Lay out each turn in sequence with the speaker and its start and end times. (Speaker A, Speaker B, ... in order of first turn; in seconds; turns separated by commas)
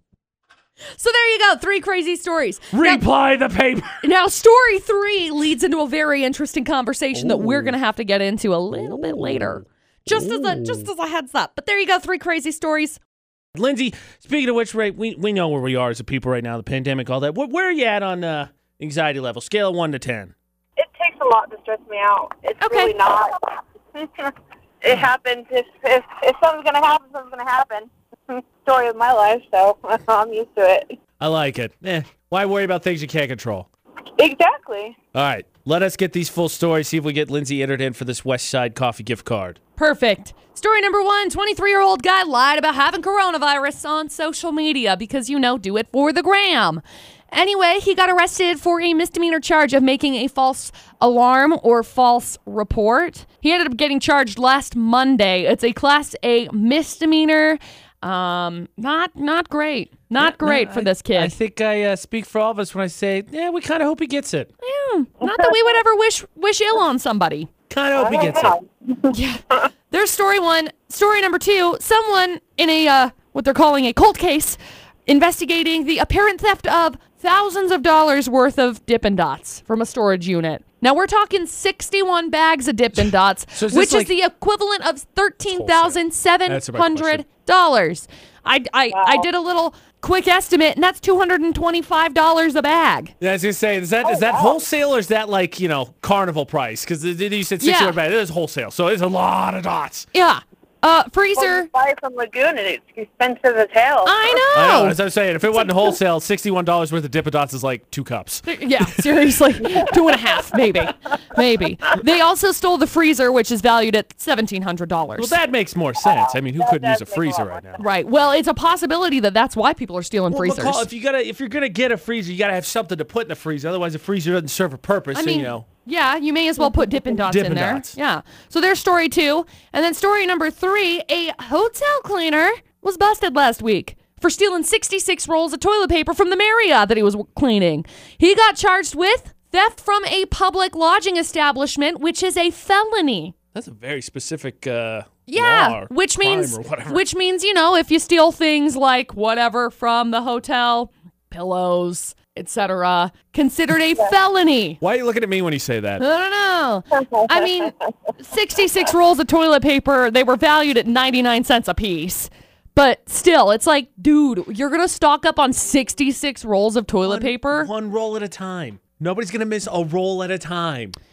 Speaker A: 0.9-3.0, Speaker B: 2.7-4.0, Speaker A: 4.0-13.0, Speaker B: 7.1-7.8, Speaker B: 8.7-10.9, Speaker B: 13.5-20.3, Speaker C: 20.8-30.9, Speaker A: 22.6-22.9, Speaker B: 31.2-33.7, Speaker C: 34.2-35.0, Speaker B: 35.1-39.6, Speaker A: 39.8-61.4, Speaker B: 60.2-64.5, Speaker A: 64.6-67.5, Speaker C: 65.2-65.8, Speaker B: 67.7-68.6, Speaker C: 67.9-69.2, Speaker A: 69.1-93.1, Speaker B: 83.0-84.1, Speaker B: 85.5-87.2, Speaker C: 88.9-89.3, Speaker B: 93.2-100.1, Speaker C: 94.0-94.6, Speaker A: 97.6-98.0, Speaker A: 100.1-101.7, Speaker C: 101.4-104.5, Speaker A: 104.0-105.0, Speaker B: 104.5-109.3, Speaker A: 105.6-105.9, Speaker A: 108.5-115.4, Speaker B: 115.2-117.8, Speaker C: 116.0-117.9, Speaker A: 117.8-120.9, Speaker B: 120.3-125.7, Speaker A: 125.1-143.3, Speaker B: 127.2-128.0, Speaker B: 143.5-147.0, Speaker A: 145.3-154.8, Speaker B: 154.8-156.0, Speaker A: 156.0-167.7, Speaker C: 156.9-157.9, Speaker B: 167.1-170.9